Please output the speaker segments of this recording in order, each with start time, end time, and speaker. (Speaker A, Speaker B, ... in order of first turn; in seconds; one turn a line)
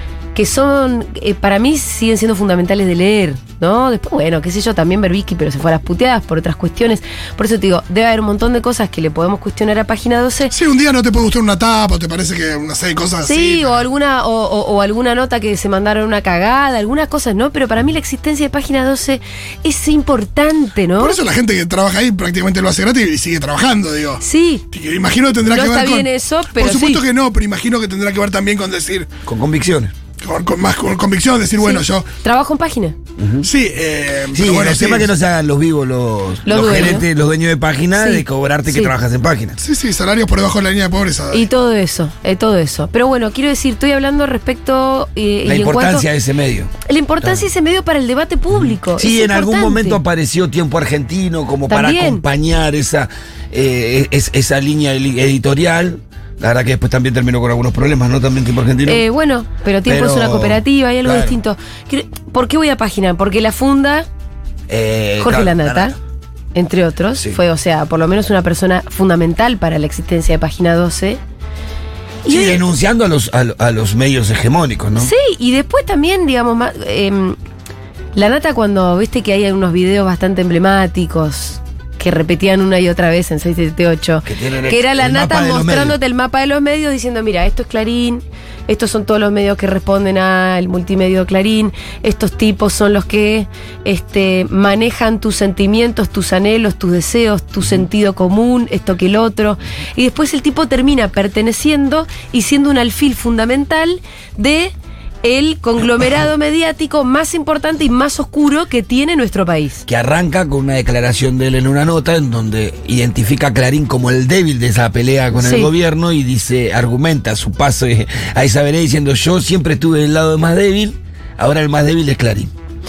Speaker A: 0.3-10.5
Speaker B: 10.5-13.8
Speaker A: 13.2-21.2
Speaker B: 21.0-29.1
Speaker A: 24.2-24.6
Speaker A: 25.5-27.0
Speaker C: 29.2-29.9
Speaker B: 30.2-32.1
Speaker A: 31.6-33.0
Speaker C: 33.2-33.5
Speaker B: 33.4-35.1
Speaker C: 34.3-39.6
Speaker A: 36.4-37.1
Speaker A: 38.0-38.9
Speaker B: 39.6-41.5
Speaker A: 41.3-46.1
Speaker C: 45.4-46.7
Speaker A: 46.9-50.0
Speaker C: 49.0-59.0
Speaker A: 51.7-52.2
Speaker A: 58.8-64.1
Speaker C: 59.9-61.4
Speaker C: 64.7-66.0
Speaker A: 65.2-66.0
Speaker A: 66.5-71.2
Speaker A: 72.2-72.6
Speaker C: 72.3-75.1
Speaker A: 75.0-77.4
Speaker A: 78.1-109.8
Speaker C: 84.2-86.0
Speaker C: 109.8-122.5
Speaker A: 115.4-115.7